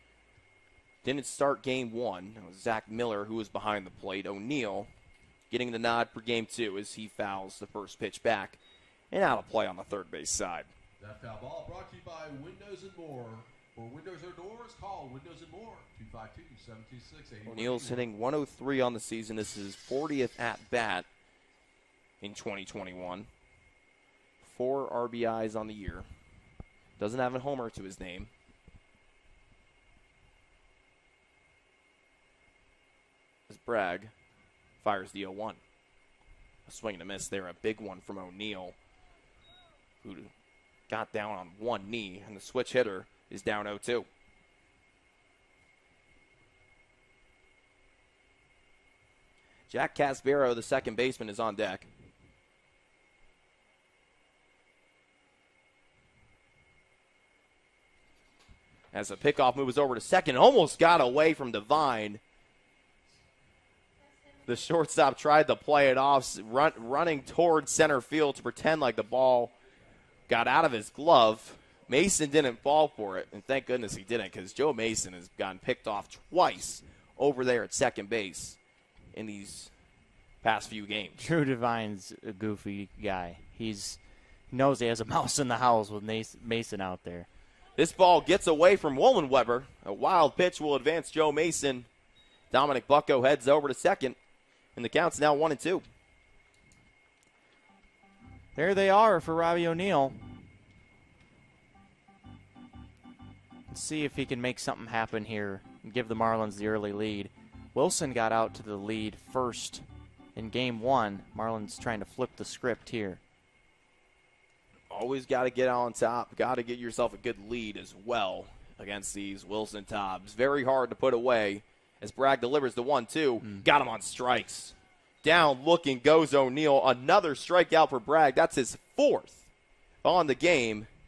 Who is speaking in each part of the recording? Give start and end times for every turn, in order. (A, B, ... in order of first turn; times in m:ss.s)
0:01.0-0:04.9 A
0:05.5-0:08.6 A
0:09.1-0:10.7 A
0:11.0-0:18.0 B
0:17.5-0:21.1 A
0:22.2-0:23.3 A
0:24.4-0:26.1 A
0:27.0-0:28.3 A
0:33.5-0:34.1 A
0:34.8-0:35.6 A
0:36.6-0:38.8 A
0:40.0-0:40.3 A
0:40.9-0:44.1 A
0:49.7-0:51.9 A
0:58.9-1:02.2 A
1:04.4-1:09.5 A
1:10.3-1:18.6 A
1:19.1-1:19.7 A
1:20.4-1:21.2 A
1:21.1-1:24.0 C
1:24.5-1:27.3 C
1:27.8-1:31.9 A
1:32.5-1:34.2 A
1:34.8-1:35.8 A
1:38.5-1:40.6 C
1:43.7-1:49.8 C
1:50.4-1:53.2 C
1:54.9-2:09.5 A
2:10.0-2:10.9 A